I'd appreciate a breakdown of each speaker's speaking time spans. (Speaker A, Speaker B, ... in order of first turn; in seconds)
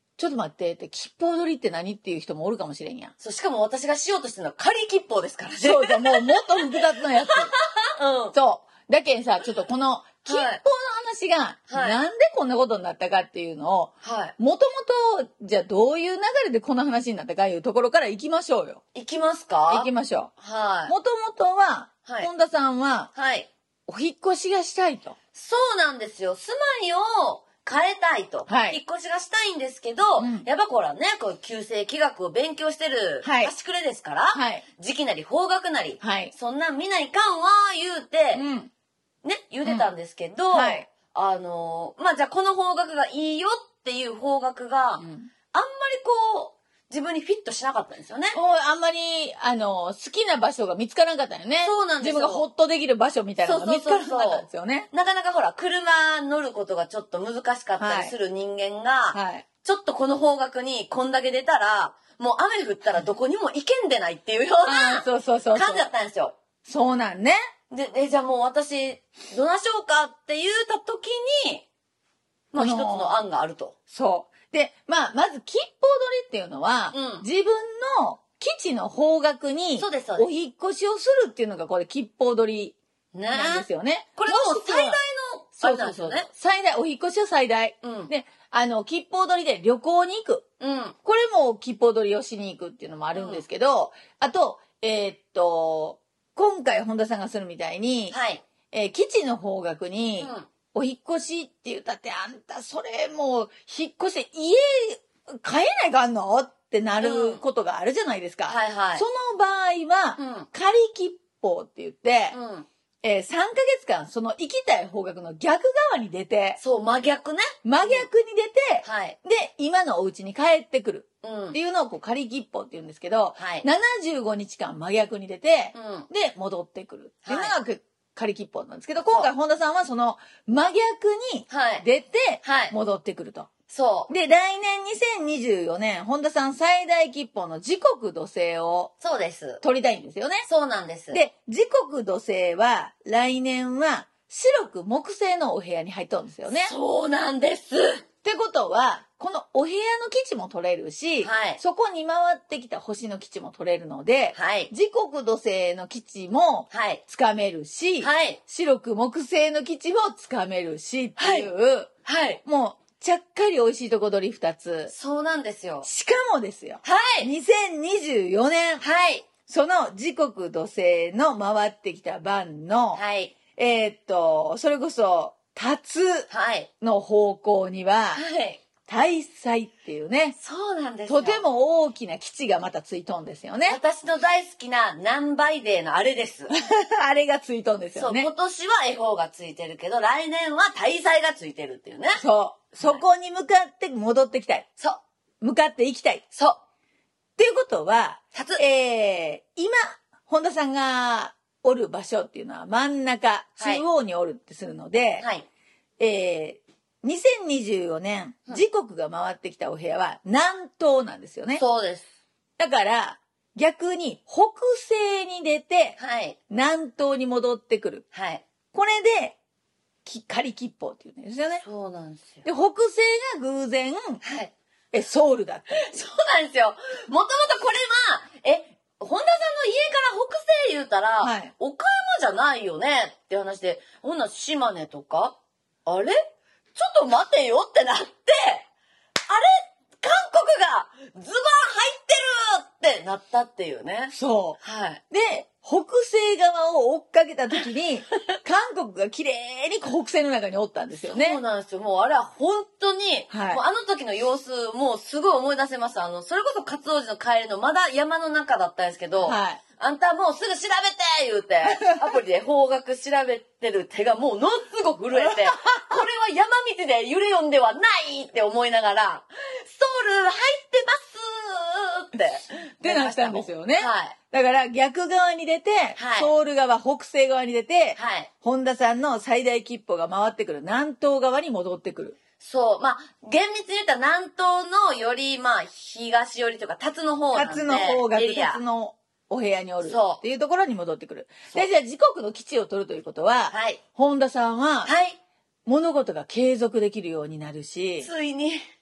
Speaker A: 0.2-3.1, 5.6-7.5, 8.3-18.8, 19.7-20.3, 20.9-23.1, 23.9-25.2, 28.5-28.8, 30.2-30.5, 33.2-33.5, 34.3-34.6, 36.0-36.3, 38.3-38.7, 39.6-39.9, 40.5-40.9, 45.0-45.3, 48.3-54.9, 57.8-58.1, 59.1-59.5, 64.7-65.9, 66.6-67.4, 72.6-73.2, 73.9-82.8, 83.3-85.0, 85.6-90.5, 91.0-98.2, 98.7-112.4, 113.0-116.6, 117.6-133.5, 134.1-138.9, 139.6-140.5, 141.1-146.7, 148.2-161.9, 162.4-164.9, 165.8-168.8, 169.5-173.0, 173.6-176.3, 176.8-178.2, 178.8-180.4, 181.1-183.8, 186.6-188.3, 192.2-194.7, 195.4-196.2, 197.4-205.3, 206.0-211.6, 212.6-216.0, 216.5-218.1, 218.7-219.4, 220.1-221.7, 222.4-224.2, 224.9-226.0, 231.2-231.5, 244.1-251.4, 253.3-253.6, 259.2-259.6, 265.1-266.0, 272.8-282.2, 287.3-294.9, 295.7-298.1
Speaker B: 3.2-8.4, 10.3-10.6, 11.7-12.0, 14.0-14.3, 18.9-19.9, 20.4-20.9, 23.1-23.5, 25.4-38.4, 39.2-48.4, 51.6-52.5, 53.4-66.4, 67.7-71.7, 72.5-73.8, 76.9-77.2, 79.8-80.3, 83.1-86.3, 87.8-88.1, 90.6-91.0, 93.1-93.5, 98.1-98.4, 100.2-100.5, 107.0-107.4, 108.5-109.1, 110.2-110.5, 112.3-112.7, 116.6-118.1, 118.8-119.2, 121.2-121.6, 123.4-123.7, 125.7-126.1, 127.3-127.5, 131.5-131.8, 132.4-132.8, 133.7-134.1, 139.0-139.6, 140.5-141.2, 146.5-148.0, 151.2-151.6, 154.3-154.7, 156.7-157.0, 158.0-158.4, 161.2-161.5, 162.1-162.4, 164.9-165.9, 166.8-167.3, 168.8-169.3, 172.9-173.3, 176.3-176.7, 178.1-178.6, 180.4-181.4, 183.7-186.5, 187.9-192.2, 192.8-193.0, 198.3-198.6, 203.6-203.8, 205.2-205.5, 211.6-212.1, 216.0-216.4, 218.1-218.4, 221.6-222.4, 224.2-224.5, 225.7-236.2, 236.8-238.7, 239.3-245.0, 251.0-274.1, 276.0-276.3, 278.0-278.3, 282.4-288.6, 289.8-290.2, 293.5-293.8, 294.9-295.2, 298.0-298.6